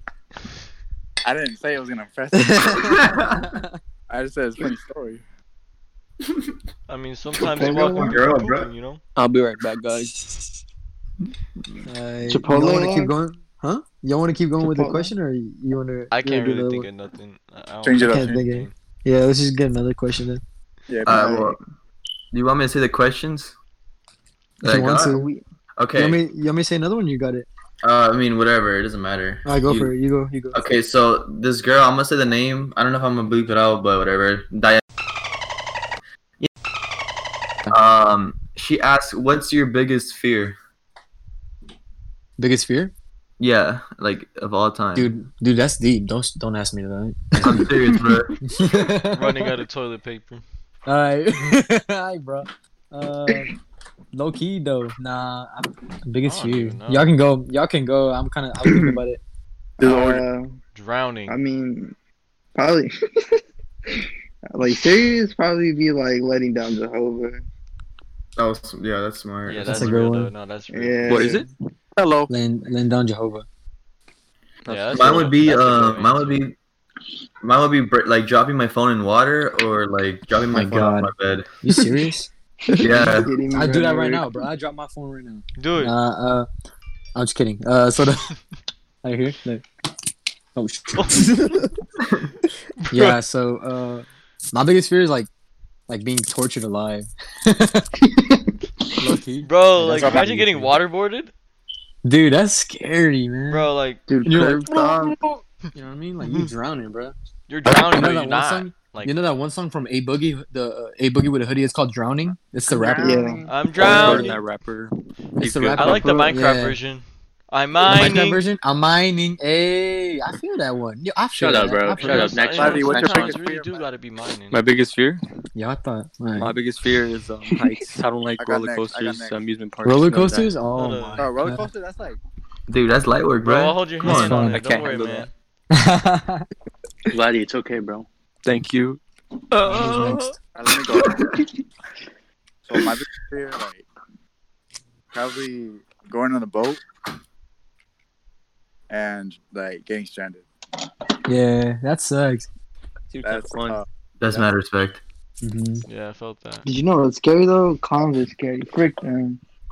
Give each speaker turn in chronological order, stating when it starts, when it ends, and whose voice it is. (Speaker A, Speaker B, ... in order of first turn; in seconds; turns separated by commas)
Speaker A: 1.2-3.0, Speaker B: 2.3-3.8, Speaker C: 2.9-3.4, Speaker A: 4.1-5.2, Speaker D: 6.9-9.0, Speaker E: 7.4-8.2, Speaker C: 7.6-8.7, Speaker F: 9.2-10.3, Speaker B: 11.8-16.9, Speaker E: 12.2-13.1, Speaker E: 14.6-15.1, Speaker D: 16.1-18.7, Speaker A: 17.8-18.4, Speaker B: 18.1-20.4, Speaker A: 20.9-21.4, Speaker C: 21.0-21.6, Speaker E: 21.1-21.6, Speaker C: 22.3-23.5, Speaker C: 24.6-25.2, Speaker B: 24.6-25.3, Speaker E: 25.0-25.4, Speaker C: 25.8-26.2, Speaker B: 25.9-27.5, Speaker C: 27.8-29.9, Speaker B: 29.4-30.6, Speaker C: 30.5-34.8, Speaker C: 37.7-40.6, Speaker B: 42.4-42.9, Speaker C: 43.4-45.1, Speaker B: 45.0-47.7, Speaker C: 47.4-48.3, Speaker B: 48.4-49.6, Speaker D: 49.1-50.4, Speaker B: 50.9-53.5, Speaker B: 54.1-59.2, Speaker D: 56.2-57.1, Speaker E: 58.6-59.0, Speaker A: 59.8-60.2, Speaker E: 59.8-60.6, Speaker D: 60.7-61.4, Speaker E: 61.3-62.0, Speaker E: 62.5-67.4, Speaker C: 68.4-69.9, Speaker D: 69.5-71.4, Speaker B: 69.6-70.3, Speaker E: 70.7-71.5, Speaker F: 71.1-71.5, Speaker A: 72.0-72.3, Speaker B: 72.3-73.5, Speaker F: 74.7-75.4, Speaker D: 74.7-76.4, Speaker C: 74.9-76.5, Speaker C: 77.4-81.5, Speaker B: 80.5-82.3, Speaker E: 82.7-84.3, Speaker C: 82.8-83.3, Speaker B: 83.5-86.5, Speaker D: 85.6-85.9, Speaker B: 87.1-88.3, Speaker B: 89.0-89.6, Speaker B: 90.5-91.7, Speaker D: 91.0-91.3, Speaker D: 92.8-93.2, Speaker B: 92.9-95.3, Speaker B: 95.9-97.9, Speaker E: 98.0-98.5, Speaker B: 99.0-100.8, Speaker D: 99.4-101.3, Speaker A: 99.9-100.3, Speaker B: 102.0-103.7, Speaker D: 103.5-104.0, Speaker E: 104.1-105.2, Speaker B: 104.2-104.7, Speaker B: 105.7-107.1, Speaker D: 106.2-106.5, Speaker D: 107.5-109.1, Speaker B: 107.7-114.3, Speaker G: 112.7-113.4, Speaker E: 113.0-113.5, Speaker D: 113.5-114.4, Speaker F: 113.7-116.3, Speaker B: 115.4-116.8, Speaker D: 115.7-118.4, Speaker B: 117.8-122.4, Speaker G: 121.3-123.4, Speaker D: 122.0-124.6, Speaker A: 122.5-123.8, Speaker F: 124.5-125.2, Speaker B: 125.5-126.5, Speaker F: 126.3-130.6, Speaker A: 128.4-129.4, Speaker B: 129.8-131.7, Speaker D: 130.7-131.2, Speaker A: 131.2-132.2, Speaker C: 132.7-134.4, Speaker D: 133.4-135.3, Speaker B: 134.0-134.6, Speaker F: 134.0-135.3, Speaker B: 135.7-136.5, Speaker G: 137.1-138.1, Speaker F: 138.4-140.4, Speaker B: 139.6-140.3, Speaker A: 140.5-141.3, Speaker A: 142.7-143.9, Speaker A: 145.1-146.8, Speaker A: 148.9-150.4, Speaker B: 151.2-152.5, Speaker F: 153.1-153.8, Speaker A: 153.2-153.8, Speaker C: 154.2-155.0, Speaker B: 155.4-155.8, Speaker D: 155.9-156.6, Speaker E: 156.6-159.4